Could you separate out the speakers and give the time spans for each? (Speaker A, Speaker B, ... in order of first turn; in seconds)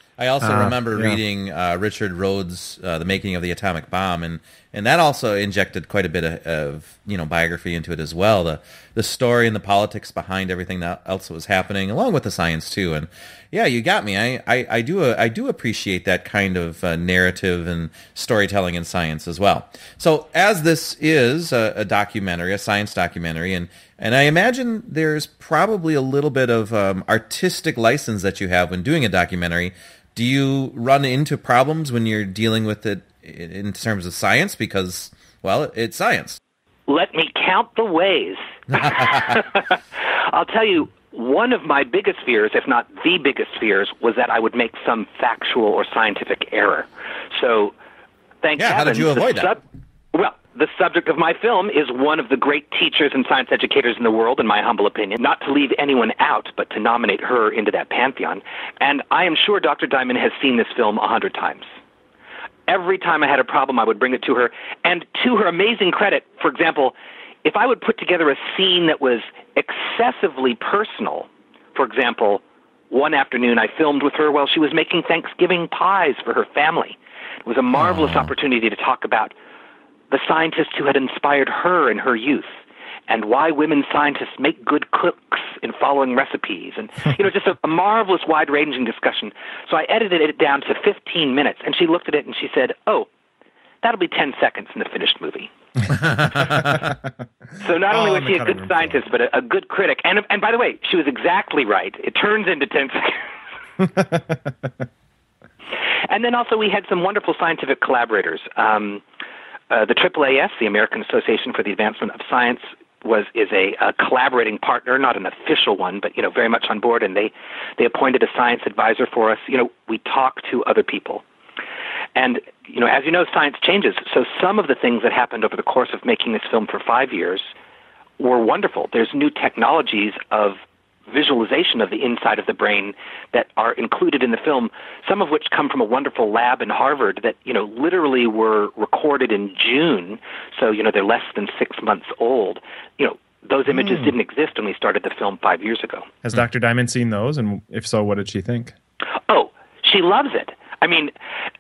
Speaker A: 0.2-36.4, 38.8-39.4, 48.6-49.5, 77.8-78.3, 96.4-96.8
Speaker B: 0.4-1.2, 97.9-99.0, 103.8-104.7, 146.2-148.7
Speaker C: 36.9-47.8, 48.4-49.6, 50.1-61.7, 62.7-79.3, 80.1-93.1, 93.8-96.5, 97.6-103.2, 106.1-109.0, 109.7-121.2, 122.2-127.5, 128.2-146.1, 149.3-151.1